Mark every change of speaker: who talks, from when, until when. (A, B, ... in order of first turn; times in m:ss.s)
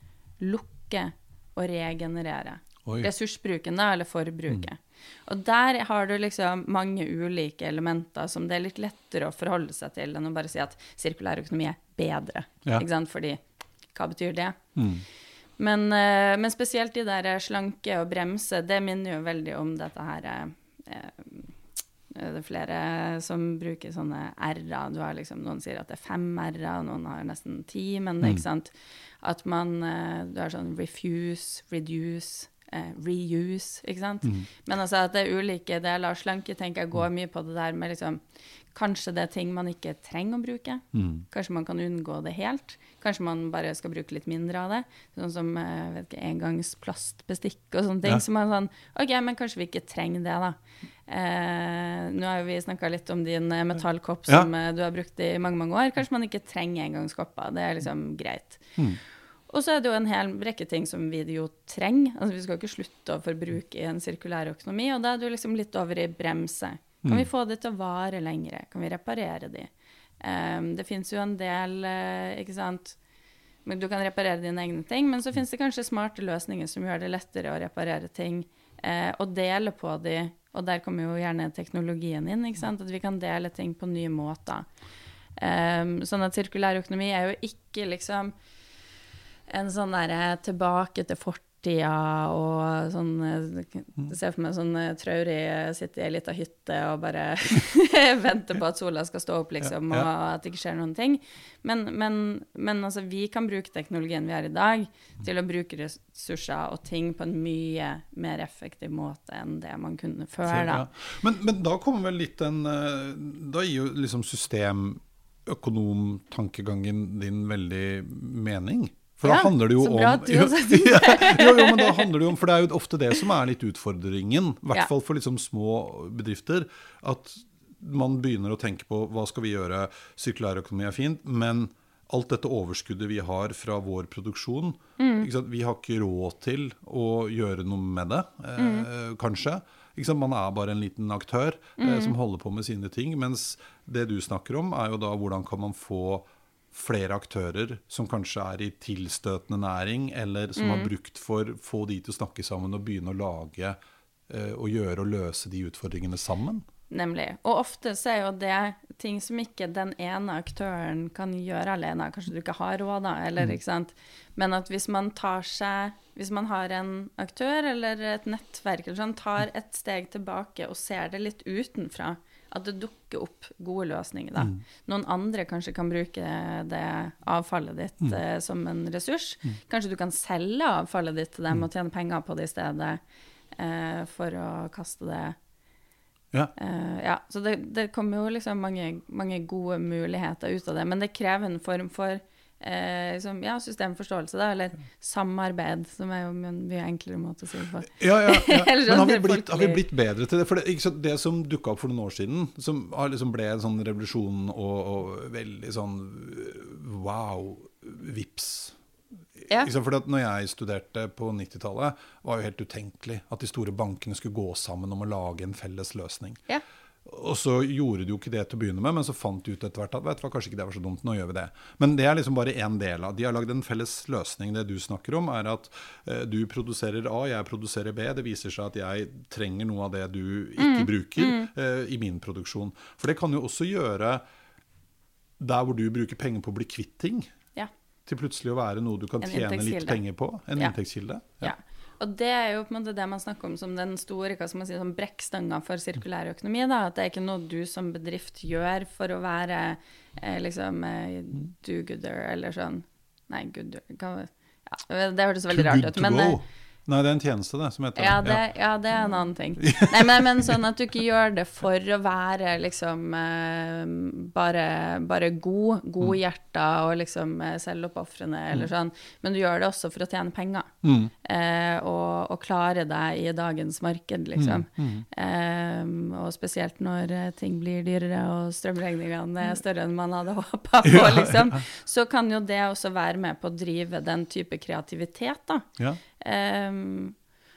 0:00.4-0:13.4 A
0:02.8-0:03.1 B
0:13.9-0:14.6 A
0:14.8-0:15.1 B
0:15.6-0:21.6 A
0:22.1-0:38.2 A
0:38.7-0:58.8 A
0:40.9-0:41.2 B
0:59.5-1:09.7 A
1:10.2-1:13.0 A
1:13.6-1:24.7 A
1:25.4-1:28.3 A
1:29.5-1:50.9 A
1:39.6-1:40.1 B
1:50.5-2:33.8 B
1:59.2-2:02.1 A
2:15.0-2:15.3 A
2:18.6-2:18.9 A
2:21.8-2:22.1 A
2:30.6-2:30.9 A
2:34.3-2:36.6 B
2:36.9-3:03.0 A
3:03.6-3:05.4 A
3:06.6-3:19.8 A
3:18.0-3:28.8 B
3:29.6-3:36.4 B
3:37.0-3:54.2 B
3:50.6-3:51.5 A
3:55.4-3:57.3 B
3:58.1-4:01.5 B
3:59.2-4:00.0 A
4:01.4-4:16.4 A
4:15.5-4:18.4 B
4:18.0-4:30.7 A
4:19.6-4:20.6 B
4:30.8-4:31.1 B
4:31.2-4:45.7 A
4:34.4-4:35.0 B
4:40.8-4:41.6 B
4:46.2-4:47.1 A